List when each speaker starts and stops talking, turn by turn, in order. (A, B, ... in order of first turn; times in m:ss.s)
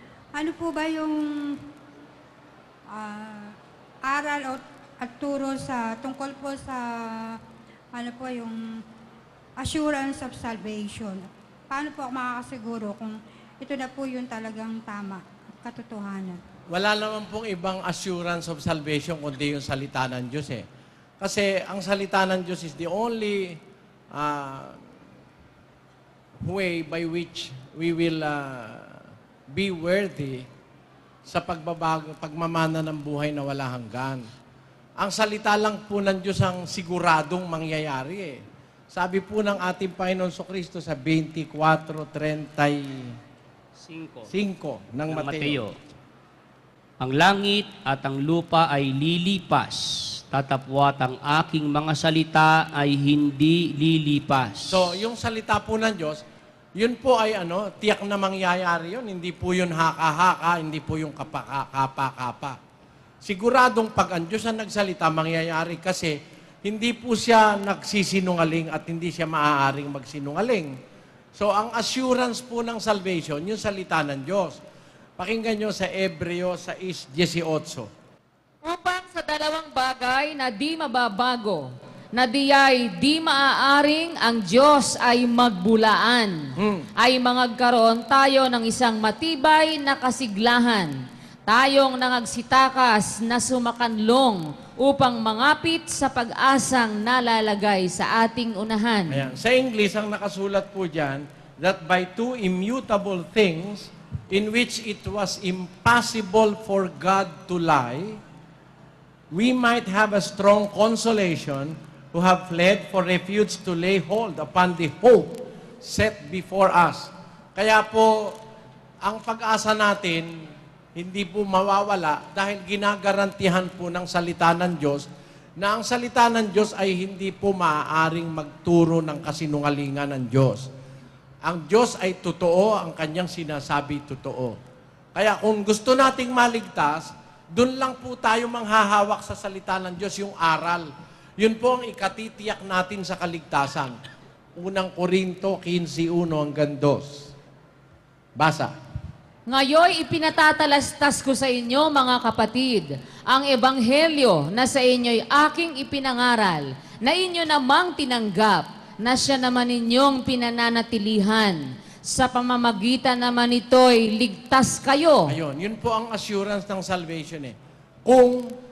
0:00.3-0:01.6 A
0:02.9-0:07.4 A
0:07.9-0:08.6 A
0:09.6-0:16.4 A
0:16.7-0:20.6 B
0:21.2-0:23.6 B
0:24.1-0:24.8 B
0:26.4-0:30.4 B
0:31.3-0:34.2 B
0:35.0-0:38.4 B
0:38.9-0:43.1 B
0:43.8-0:44.3 C
0:44.3-0:45.6 B
0:45.1-0:45.8 C
0:47.0-0:54.9 C
0:54.7-0:56.2 B
0:56.8-1:02.6 B
1:03.2-1:10.7 B
1:11.4-1:14.6 B
1:15.2-1:17.9 B
1:18.7-1:21.6 D
1:22.3-1:22.9 D
1:25.4-1:26.2 D
1:26.6-1:26.9 B
1:27.0-1:28.2 D
1:28.8-1:29.1 D
1:30.1-1:30.6 D
1:31.5-1:34.2 D
1:34.9-1:39.0 D
1:39.1-1:48.2 B
1:49.3-1:58.4 B
1:59.0-2:00.3 B
2:01.0-2:05.1 B
2:05.6-2:10.7 B
2:11.4-2:14.6 B
2:15.2-2:24.0 B
2:24.6-2:27.3 B
2:28.4-2:28.7 B
2:29.5-2:32.6 D
2:33.8-2:36.2 D
2:37.0-2:39.1 D
2:40.0-2:41.1 D
2:42.2-2:43.4 D
2:43.9-2:44.7 D
2:45.3-2:48.5 B